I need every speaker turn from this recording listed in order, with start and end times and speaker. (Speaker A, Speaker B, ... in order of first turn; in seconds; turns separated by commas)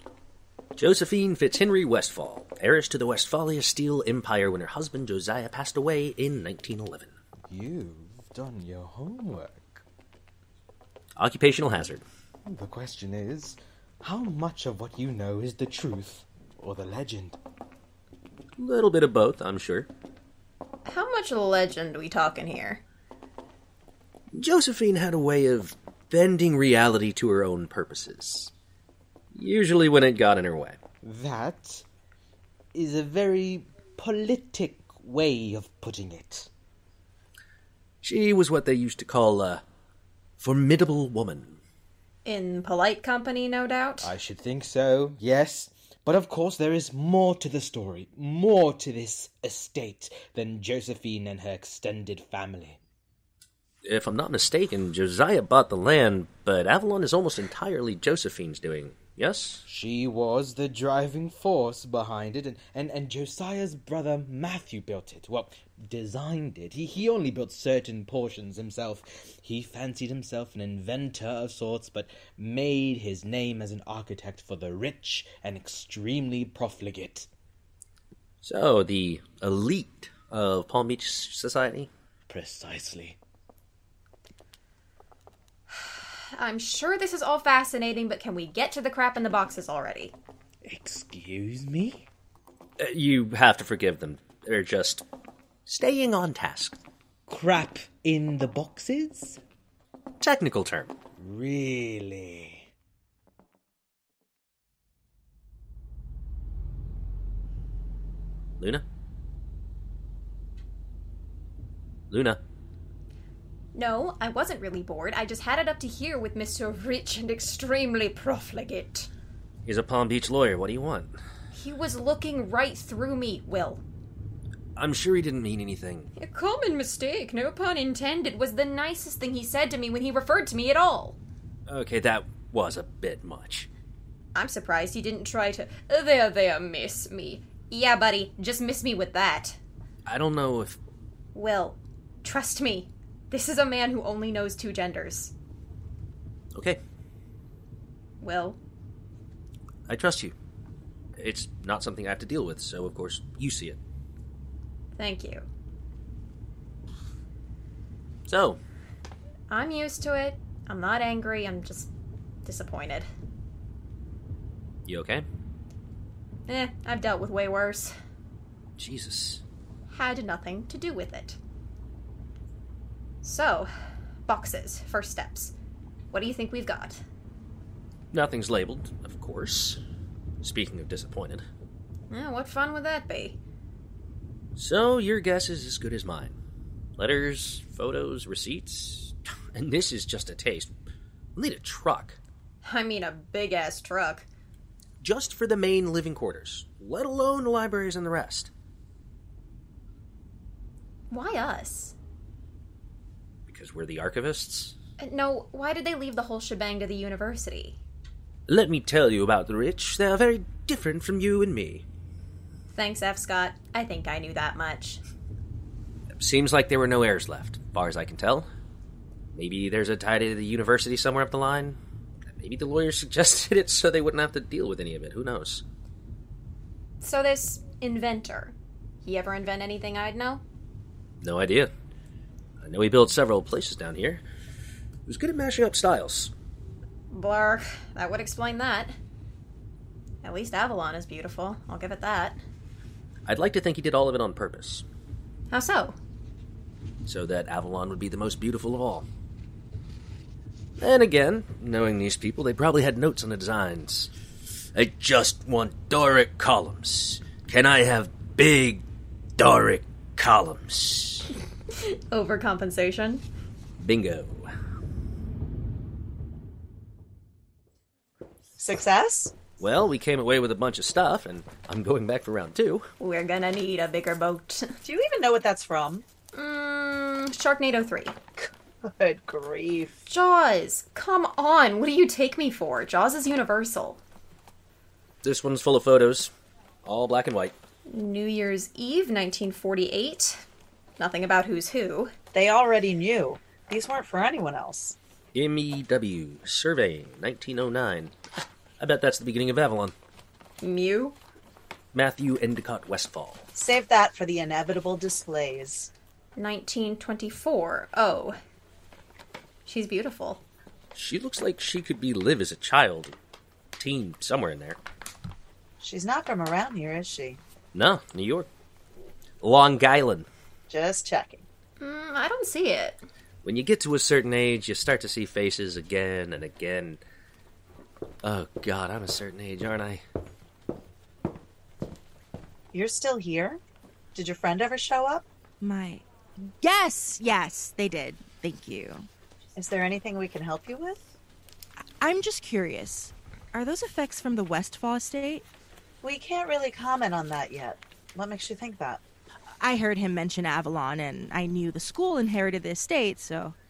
Speaker A: 0.8-7.1, Speaker B: 7.5-9.8, Speaker A: 11.2-12.0, Speaker B: 12.4-17.4, Speaker A: 18.6-19.9, Speaker C: 20.9-22.8, Speaker A: 24.3-28.5, Speaker A: 29.3-30.8, Speaker B: 31.0-31.8, Speaker B: 32.7-36.5, Speaker A: 38.0-39.6, Speaker A: 40.4-41.6, Speaker C: 42.2-44.1, Speaker B: 44.0-52.8, Speaker A: 53.8-59.6, Speaker B: 59.6-77.3, Speaker A: 78.4-81.9, Speaker B: 82.3-83.2, Speaker C: 85.7-90.1, Speaker B: 90.6-92.0, Speaker A: 92.8-95.0, Speaker A: 95.7-96.8, Speaker B: 97.3-99.4, Speaker A: 100.2-100.9, Speaker B: 101.2-102.7, Speaker A: 112.1-112.4, Speaker C: 113.7-119.1, Speaker A: 119.6-121.1, Speaker C: 121.5-123.8, Speaker A: 124.8-126.1, Speaker C: 126.2-131.2, Speaker A: 131.7-133.7, Speaker C: 134.3-139.6, Speaker A: 140.1-140.8, Speaker C: 141.3-145.3, Speaker C: 148.2-148.6, Speaker A: 149.9-150.3, Speaker A: 151.2-153.8, Speaker C: 155.0-155.4, Speaker A: 158.3-158.6, Speaker C: 159.5-161.9, Speaker C: 162.4-163.1, Speaker A: 164.8-165.2, Speaker C: 166.5-167.9, Speaker A: 168.8-169.4, Speaker C: 169.9-171.4, Speaker C: 173.2-173.7, Speaker C: 174.3-175.5, Speaker C: 176.1-177.0, Speaker A: 178.1-179.8, Speaker A: 180.4-181.4, Speaker C: 182.1-183.4, Speaker A: 184.6-186.3, Speaker A: 187.0-190.7, Speaker A: 191.3-192.2, Speaker C: 192.6-194.2, Speaker A: 195.0-198.5, Speaker C: 201.1-201.9, Speaker A: 203.5-204.7, Speaker C: 205.0-207.8, Speaker A: 208.5-211.8, Speaker C: 212.7-215.0, Speaker A: 216.2-218.5, Speaker A: 219.3-221.8, Speaker A: 222.3-225.6, Speaker C: 227.0-230.4, Speaker A: 231.2-231.7, Speaker A: 232.6-234.2, Speaker A: 235.1-236.3, Speaker C: 237.1-238.9, Speaker C: 240.2-242.4, Speaker A: 243.2-244.8, Speaker C: 245.5-245.9, Speaker A: 247.1-249.1, Speaker A: 250.8-254.1, Speaker A: 254.7-258.8, Speaker A: 259.4-261.3, Speaker C: 261.7-263.2, Speaker A: 263.8-264.5, Speaker D: 268.6-269.3, Speaker A: 269.6-272.9, Speaker C: 273.0-274.8, Speaker D: 274.8-276.0, Speaker C: 276.3-278.1, Speaker D: 278.4-280.0, Speaker C: 280.1-284.0, Speaker A: 285.2-286.3, Speaker A: 286.8-287.5, Speaker C: 287.9-290.4, Speaker C: 291.0-292.1, Speaker D: 292.3-294.9, Speaker A: 295.3-298.1, Speaker A: 298.8-299.9, Speaker C: 300.6-301.2, Speaker A: 301.9-303.4, Speaker D: 303.5-305.9, Speaker C: 306.4-308.4, Speaker C: 309.6-310.4, Speaker A: 310.9-313.2, Speaker A: 313.8-314.8, Speaker D: 315.8-317.4, Speaker A: 317.7-318.5, Speaker A: 319.4-320.3, Speaker D: 320.7-321.4, Speaker C: 321.8-323.0, Speaker A: 323.4-327.0, Speaker A: 328.2-330.0, Speaker D: 332.7-333.6, Speaker D: 334.1-335.2, Speaker E: 335.6-339.1, Speaker D: 339.6-341.1, Speaker E: 342.0-345.4, Speaker D: 346.0-349.0, Speaker E: 349.6-353.6